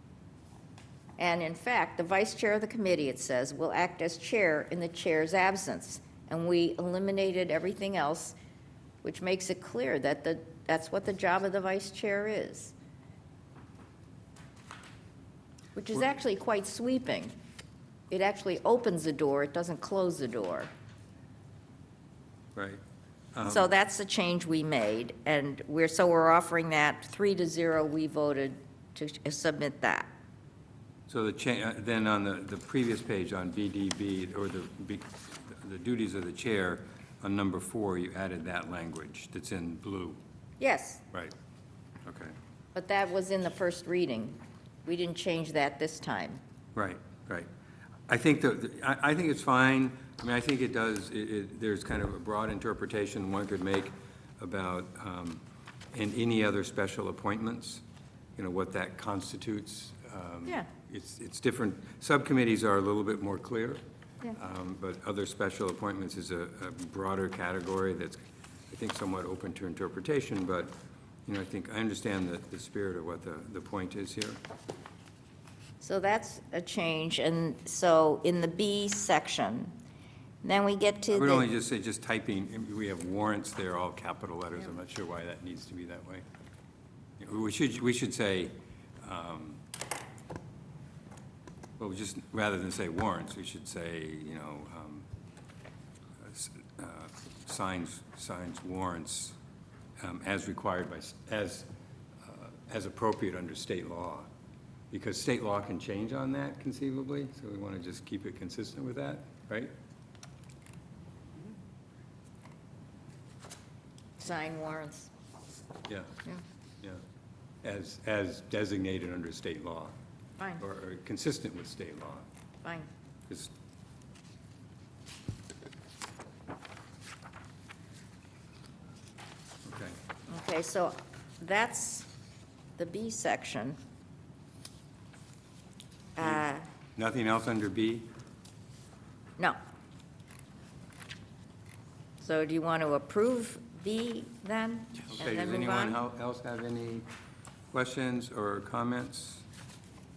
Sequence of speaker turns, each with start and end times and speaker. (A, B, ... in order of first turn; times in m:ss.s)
0:01.2-0:08.4 A
0:09.0-0:12.8 A
0:15.8-0:17.3 A
0:18.1-0:20.7 A
0:22.6-0:22.8 B
0:23.4-0:23.7 B
0:23.4-0:30.1 A
0:31.1-0:40.2 B
0:40.6-0:41.0 A
0:42.0-0:42.4 B
0:42.8-0:46.4 A
0:46.8-0:47.5 B
0:48.1-0:57.8 B
0:58.4-1:03.8 B
1:04.3-1:10.8 B
1:11.3-1:14.4 B
1:15.8-1:19.7 A
1:20.4-1:21.5 A
1:21.1-1:26.2 B
1:27.2-1:29.6 B
1:31.8-1:35.1 B
1:36.2-1:39.4 B
1:40.0-1:41.7 B
1:42.2-1:44.3 B
1:44.9-1:49.7 B
1:54.2-1:55.1 A
1:55.9-1:56.2 B
1:57.6-1:59.9 B
2:00.6-2:02.3 B
2:02.6-2:02.9 A
2:09.6-2:10.0 B
2:10.3-2:12.1 A
2:12.8-2:13.8 A
2:16.2-2:16.7 A
2:17.0-2:18.1 B
2:22.2-2:26.0 A
2:25.0-2:27.1 B
2:27.7-2:29.4 B